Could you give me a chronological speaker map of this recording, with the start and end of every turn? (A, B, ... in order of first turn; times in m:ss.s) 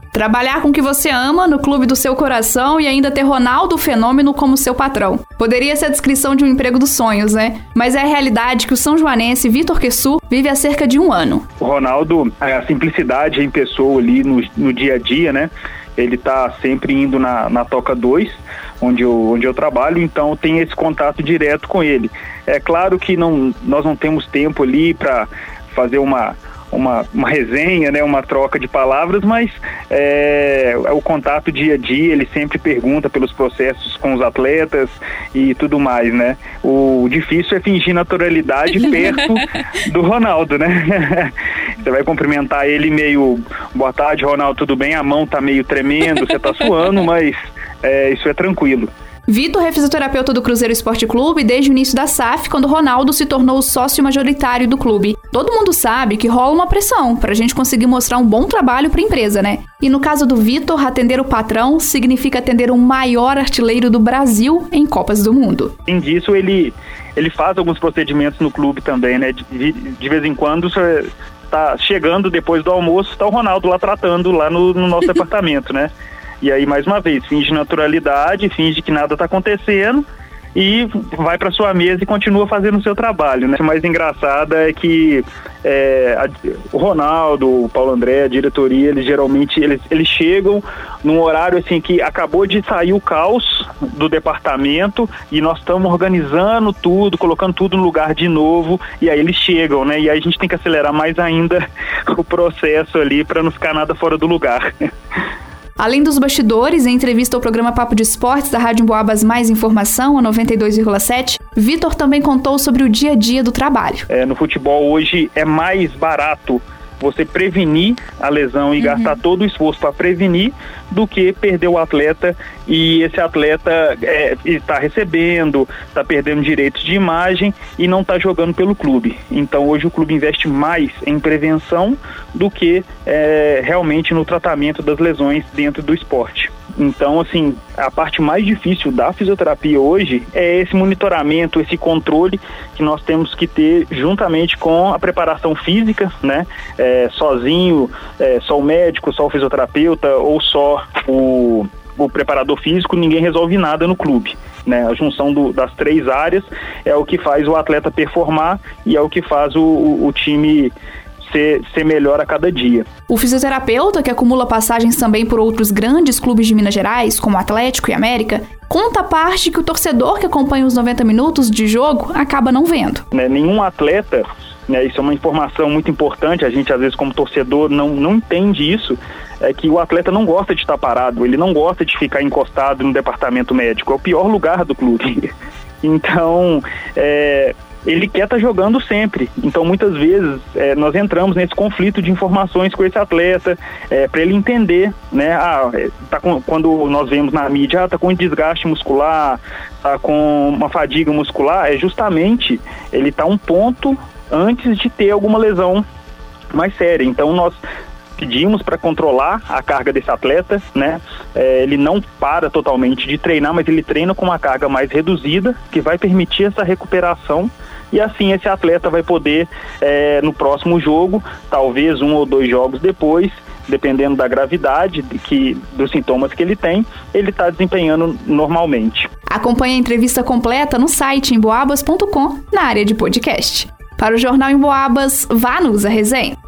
0:00.1-0:11.4 A
0:11.6-0:48.9 B
0:49.3-1:05.7 A
1:05.8-1:20.0 B
1:20.5-1:44.7 B
1:45.8-1:54.0 A
1:54.1-2:40.7 B
1:58.8-1:59.2 A
2:41.2-2:43.0 B
2:43.1-2:53.0 A
2:53.1-3:05.3 B
3:05.8-3:25.8 B
3:26.5-3:27.6 B
3:28.2-3:49.1 B
3:49.3-3:56.4 A